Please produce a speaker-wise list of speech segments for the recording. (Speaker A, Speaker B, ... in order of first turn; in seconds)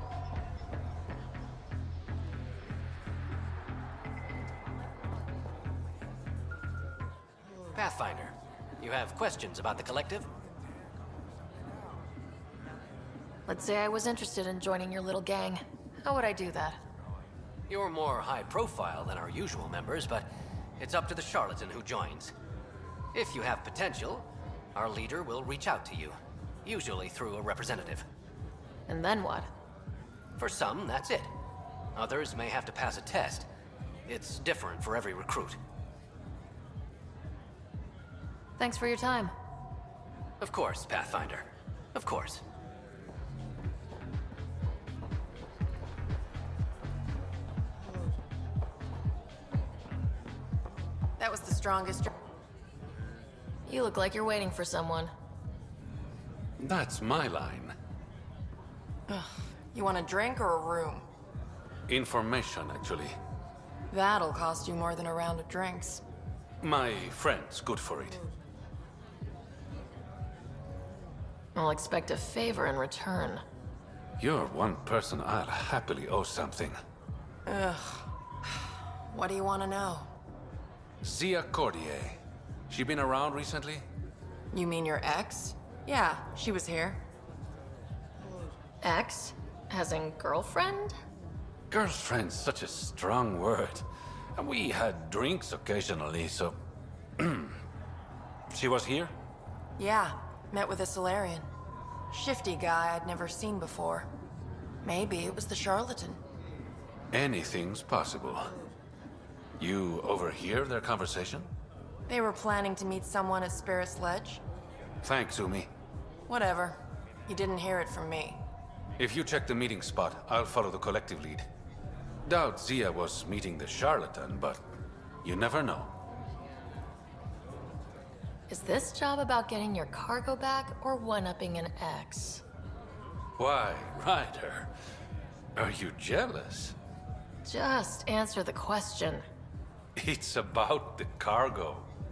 Speaker A: 7.7-10.3, 17.7-22.3, 23.1-28.1, 30.4-31.3, 31.9-33.5, 34.1-35.6, 40.4-42.4
Speaker B: 13.5-16.8, 28.9-29.5, 38.6-39.3, 53.7-55.1, 71.5-73.4, 88.8-91.0, 128.5-132.4, 137.4-139.2
Speaker C: 51.2-52.1, 59.1-61.1, 63.9-66.0, 77.5-78.1, 79.1-80.1, 84.5-87.0, 99.8-101.5, 102.1-104.1, 104.8-106.2, 112.1-114.4, 116.3-118.4
Speaker D: 56.6-57.7, 61.9-63.2, 66.6-68.2, 74.2-76.8, 81.0-83.9, 91.7-93.8, 94.4-96.6, 97.2-97.6, 98.5-99.1, 107.1-108.6, 109.6-111.5, 115.0-115.7, 119.0-121.5, 122.2-124.6, 125.2-125.9, 133.4-134.7, 135.6-136.8, 140.0-141.9